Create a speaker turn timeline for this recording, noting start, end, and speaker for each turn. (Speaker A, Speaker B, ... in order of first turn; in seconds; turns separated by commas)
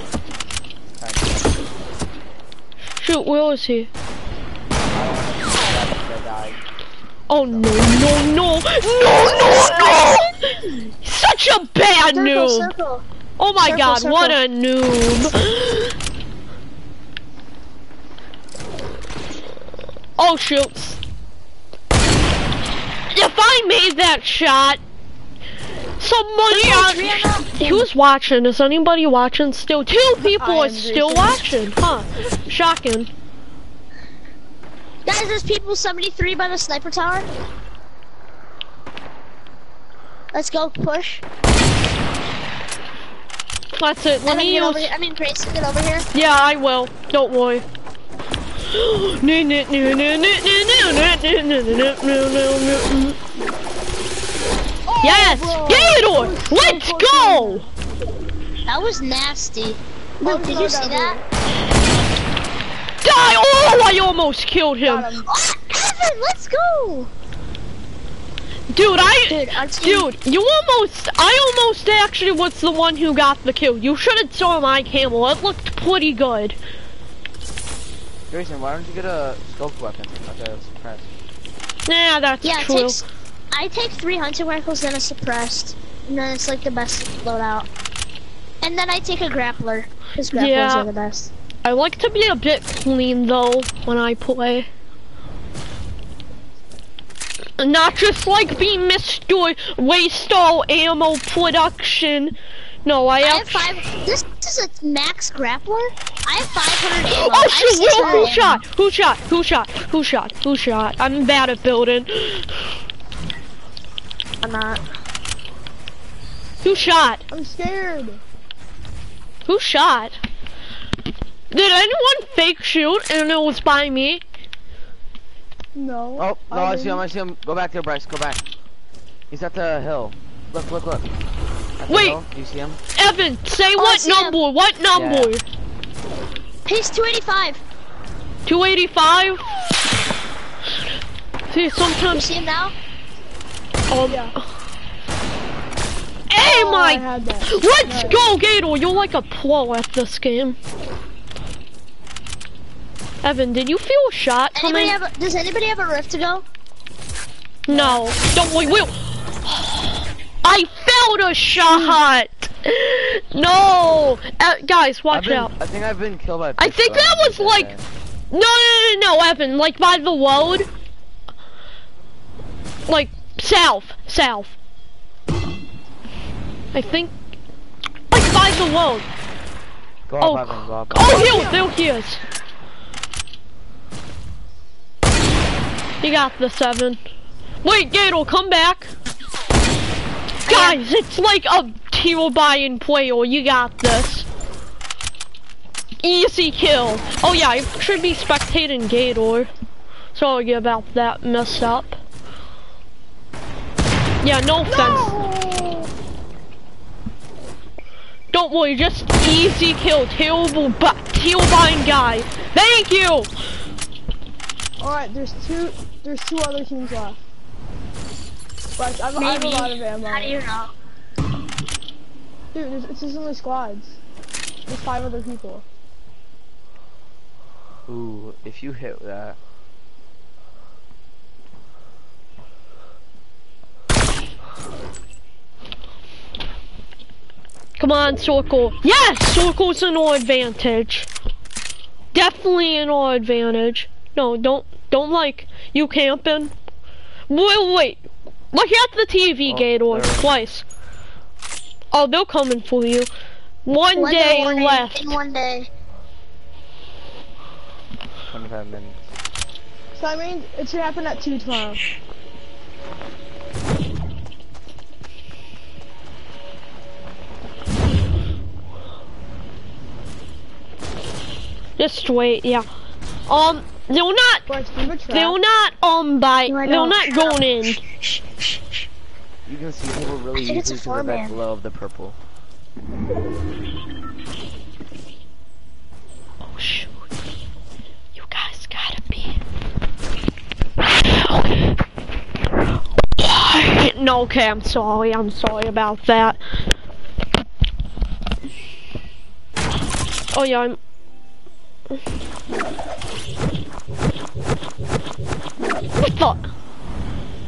Speaker A: 1.0-1.6, Speaker B: 3.0-3.9, Speaker A: 4.9-6.6, Speaker B: 7.3-12.7, Speaker A: 7.5-7.8, Speaker C: 9.2-10.0, Speaker C: 12.1-13.1, Speaker B: 13.4-15.9, Speaker C: 13.6-14.4, Speaker B: 20.2-21.0, Speaker B: 23.1-24.8, Speaker B: 26.0-33.1, Speaker C: 26.5-27.9, Speaker D: 30.2-31.6, Speaker C: 35.0-37.3, Speaker C: 40.3-41.2, Speaker B: 43.7-44.9, Speaker C: 44.3-46.1, Speaker B: 46.1-47.6, Speaker B: 48.7-53.2, Speaker D: 54.9-57.7, Speaker B: 55.0-57.6, Speaker C: 58.7-61.2, Speaker D: 60.2-61.2, Speaker B: 63.0-65.1, Speaker D: 64.8-65.3, Speaker C: 65.3-67.1, Speaker B: 68.7-76.6, Speaker C: 69.3-70.2, Speaker A: 78.3-81.1, Speaker B: 81.9-83.0, Speaker C: 82.4-87.7, Speaker C: 88.6-91.3, Speaker B: 90.3-90.9, Speaker B: 91.6-94.7, Speaker B: 97.6-102.3, Speaker B: 102.8-103.7, Speaker C: 103.2-108.6, Speaker B: 107.1-112.7, Speaker D: 108.0-108.3, Speaker C: 114.4-114.8, Speaker B: 116.6-117.2, Speaker D: 117.3-118.2, Speaker B: 119.5-120.2, Speaker B: 121.5-124.2, Speaker D: 125.8-127.0, Speaker A: 126.2-128.4, Speaker A: 129.3-131.1, Speaker A: 131.8-132.8, Speaker B: 131.9-132.2, Speaker B: 132.9-135.4, Speaker C: 133.8-134.4, Speaker A: 134.9-135.3, Speaker C: 136.7-137.6, Speaker B: 138.5-139.5, Speaker B: 141.5-142.3, Speaker C: 142.1-142.7, Speaker B: 143.9-144.4, Speaker D: 144.1-144.3, Speaker B: 146.3-150.6, Speaker D: 146.4-148.2, Speaker B: 153.2-155.0, Speaker C: 154.6-156.4, Speaker B: 157.7-165.5, Speaker D: 157.7-158.0, Speaker D: 161.6-162.0, Speaker A: 165.1-167.8, Speaker B: 166.6-167.7, Speaker B: 168.3-170.7, Speaker B: 172.9-174.6, Speaker B: 176.7-177.1, Speaker B: 178.1-179.1, Speaker A: 180.1-181.2, Speaker B: 180.2-182.2, Speaker D: 181.0-181.7, Speaker B: 186.0-187.0, Speaker B: 187.6-188.9, Speaker C: 190.5-190.8, Speaker B: 190.5-194.3, Speaker B: 196.0-199.5, Speaker B: 200.1-202.0, Speaker B: 204.2-205.2, Speaker D: 204.7-205.9, Speaker B: 208.3-213.3, Speaker D: 214.8-217.2, Speaker D: 218.8-220.4, Speaker C: 219.2-220.7, Speaker D: 222.5-224.0, Speaker D: 224.7-225.7, Speaker A: 227.9-229.4, Speaker B: 237.8-241.1, Speaker B: 242.1-246.5, Speaker B: 247.3-250.7, Speaker A: 249.5-250.3, Speaker B: 251.9-253.1, Speaker B: 253.7-255.1, Speaker C: 253.9-255.7, Speaker A: 258.3-259.1, Speaker D: 259.9-261.8, Speaker B: 271.8-272.7, Speaker B: 273.3-274.5, Speaker D: 274.5-275.4, Speaker B: 275.1-277.8, Speaker C: 276.5-278.2, Speaker A: 279.5-282.2, Speaker C: 280.4-281.3, Speaker B: 286.4-287.0, Speaker B: 288.1-289.4, Speaker B: 290.9-291.6, Speaker B: 293.2-296.4, Speaker B: 300.3-300.8, Speaker B: 306.0-306.5